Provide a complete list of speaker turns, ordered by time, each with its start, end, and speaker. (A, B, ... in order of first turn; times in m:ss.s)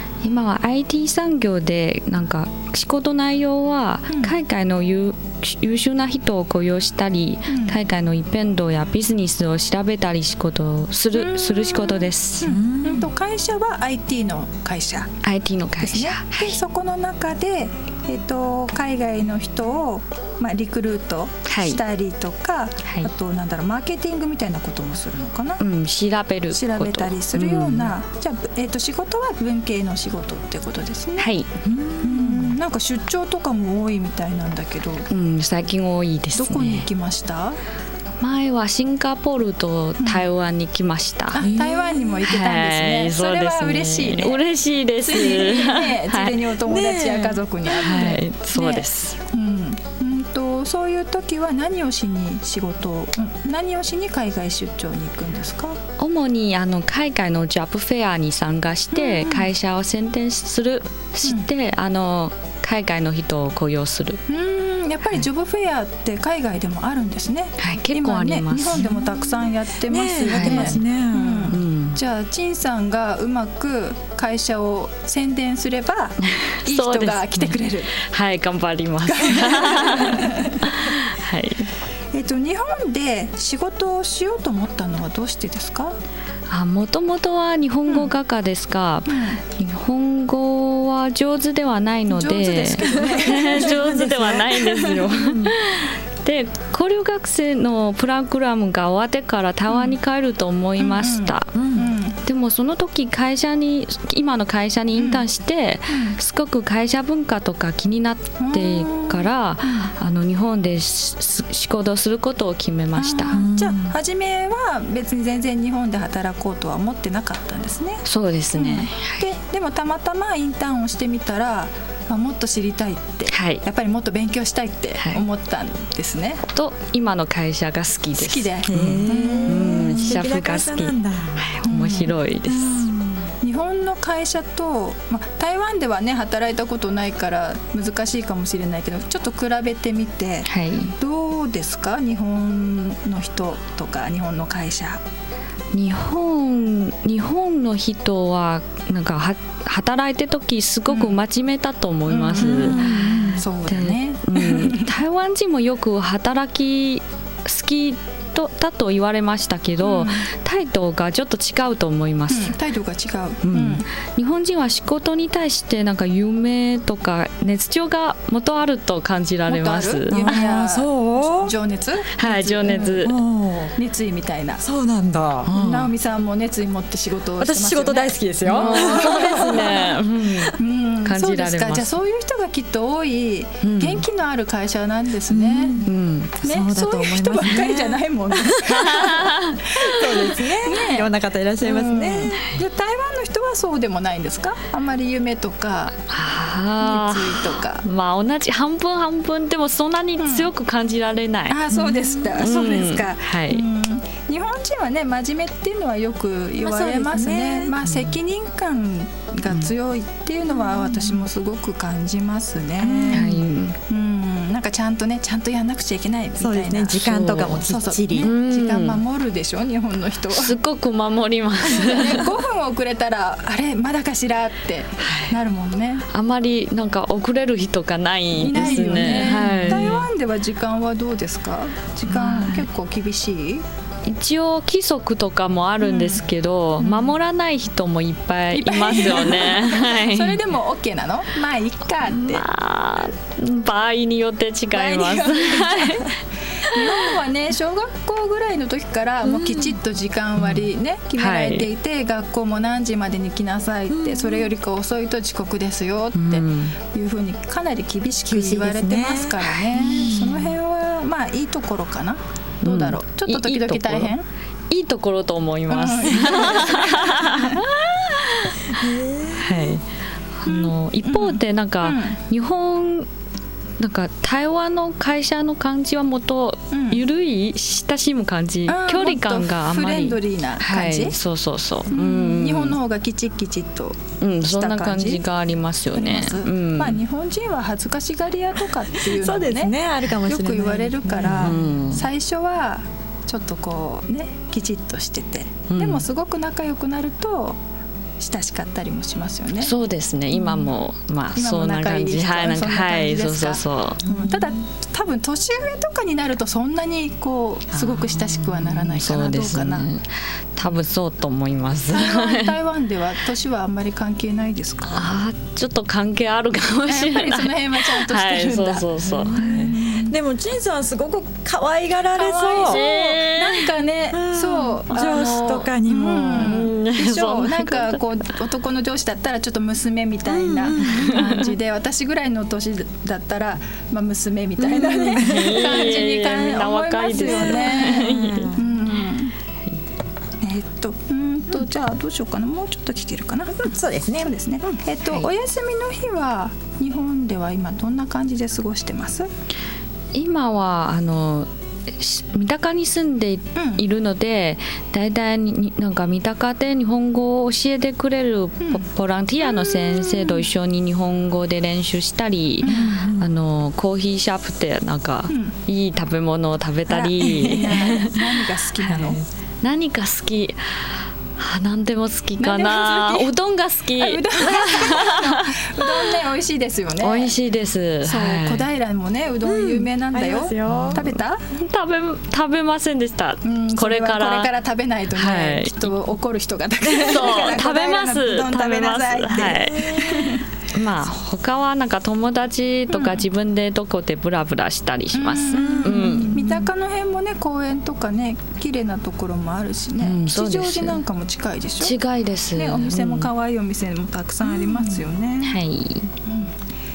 0:00.2-0:12.5 A
0:04.1-0:04.3 B
0:07.5-0:07.8 B
0:11.1-0:15.1 B
0:12.4-0:13.1 C
0:15.2-0:16.6 A
0:15.8-0:25.6 B
0:21.4-0:21.8 A
0:22.8-0:23.1 A
0:25.6-0:27.9 A
0:26.5-0:31.3 B
0:31.2-0:31.6 A
0:31.6-0:32.5 C
0:32.0-0:35.1 B
0:35.1-0:36.9 A
0:36.3-0:37.6 B
0:38.2-0:41.5 A
0:40.0-0:40.2 B
0:41.3-0:44.4 B
0:41.4-0:42.2 C
0:42.2-0:46.4 A
0:45.0-0:55.8 B
0:46.6-0:47.4 C
0:47.7-0:49.2 A
0:56.0-1:04.2 A
0:58.9-0:59.5 B
1:04.3-1:17.9 B
1:07.6-1:08.9 A
1:09.9-1:11.6 C
1:10.3-1:10.8 A
1:11.5-1:12.0 A
1:16.2-1:21.7 A
1:19.1-1:20.8 B
1:22.1-1:26.0 B
1:26.5-1:41.5 A
1:29.1-1:29.4 B
1:32.1-1:34.7 B
1:32.9-1:35.5 C
1:39.7-1:40.0 B
1:40.8-1:42.2 B
1:41.5-1:41.9 C
1:42.2-1:53.4 A
1:45.0-1:45.2 B
1:45.9-1:46.2 B
1:48.4-1:49.9 B
1:53.0-2:06.4 B
1:53.3-1:54.0 C
1:58.0-1:59.3 A
2:03.3-2:03.6 A
2:05.0-2:05.2 A
2:06.5-2:12.9 A
2:08.2-2:10.2 B
2:08.7-2:11.5 C
2:11.6-2:12.1 B
2:12.4-2:13.3 C
2:13.4-2:25.0 B
2:20.4-2:20.9 A
2:25.7-2:42.6 A
2:30.9-2:31.2 B
2:32.1-2:34.9 B
2:32.4-2:33.4 C
2:39.8-2:40.2 B
2:42.3-2:43.8 B
2:43.4-2:50.4 A
2:49.5-2:53.0 B
2:50.1-2:51.5 C
2:52.1-2:53.1 A
2:52.7-2:53.8 C
2:53.8-2:54.6 B
2:54.6-2:55.6 C
2:55.4-2:55.9 A
2:55.5-2:59.8 B
2:57.4-2:59.9 C
2:58.4-3:02.0 A
3:00.6-3:05.8 B
3:03.6-3:04.0 A
3:05.3-3:05.9 C
3:05.8-3:06.4 A
3:06.4-3:11.1 B
3:06.4-3:08.8 C
3:08.7-3:09.8 A
3:09.7-3:12.5 C
3:11.6-3:15.9 B
3:16.0-3:21.6 A
3:16.8-3:17.8 B
3:20.2-3:20.5 B
3:21.5-3:40.6 B
3:21.7-3:22.4 C
3:22.4-3:23.6 A
3:26.6-3:27.8 C
3:30.5-3:31.0 C
3:32.8-3:33.4 C
3:33.1-3:33.8 A
3:36.4-3:38.3 C
3:37.2-3:37.6 A
3:38.2-3:39.0 A
3:40.3-3:42.2 A
3:41.6-3:46.0 B
3:46.1-3:50.0 A
3:48.4-3:53.6 B
3:48.5-3:50.0 C
3:52.1-3:52.6 A
3:52.2-3:52.5 C
3:54.0-4:00.4 A
3:55.8-3:56.2 B
3:56.8-3:57.1 B
3:58.5-4:02.4 B
4:02.1-4:06.1 A
4:04.7-4:06.1 B
4:06.6-4:07.0 A
4:06.6-4:24.2 B
4:09.2-4:09.8 C
4:10.4-4:10.6 A
4:11.2-4:11.7 A
4:13.9-4:14.5 C
4:16.1-4:16.8 A
4:18.2-4:20.5 C
4:22.6-4:24.1 A
4:24.7-4:28.7 A
4:25.7-4:27.6 B
4:28.7-4:29.8 C
4:29.4-4:29.8 A
4:30.4-4:33.1 A
4:30.4-4:32.2 B
4:33.8-4:42.8 A
4:36.7-4:37.0 B
4:38.7-4:41.2 B
4:41.9-4:45.2 B
4:44.2-4:47.0 A
4:45.9-4:57.6 B
4:49.0-4:51.6 C
4:51.2-4:52.1 A
4:55.7-4:56.0 A
4:58.2-4:59.7 B
4:59.6-5:04.0 A
5:00.3-5:00.7 B
5:01.4-5:09.9 B
5:04.1-5:04.3 C
5:07.7-5:12.5 A
5:11.9-5:15.1 B
5:14.9-5:19.7 A
5:16.9-5:20.1 B
5:19.1-5:22.8 C
5:22.1-5:39.3 B
5:22.6-5:23.7 A
5:24.1-5:26.7 C
5:26.3-5:28.0 A
5:30.3-5:31.3 C
5:30.8-5:31.4 A
5:34.6-5:36.0 C
5:35.2-5:38.5 A
5:37.1-5:38.7 C
5:40.4-5:43.7 B
5:43.6-5:44.3 C
5:44.2-5:49.3 B
5:50.1-6:16.1 A
5:53.6-5:53.8 B
5:59.6-6:00.4 B
6:02.6-6:03.0 B
6:02.7-6:03.3 C
6:05.3-6:05.5 B
6:06.9-6:09.2 B
6:12.4-6:13.3 B
6:14.0-6:17.3 B
6:17.0-6:18.7 A
6:18.0-6:21.4 B
6:19.4-6:21.0 C
6:20.7-6:24.5 A
6:23.4-6:30.4 B
6:25.1-6:25.9 A
6:26.9-6:36.5 A
6:29.7-6:30.2 C
6:32.9-6:33.2 B
6:35.1-6:42.0 B
6:35.5-6:36.6 C
6:40.0-6:41.0 A
6:41.8-6:43.3 A
6:42.5-6:45.6 B
6:44.5-6:46.1 A
6:46.2-6:46.5 B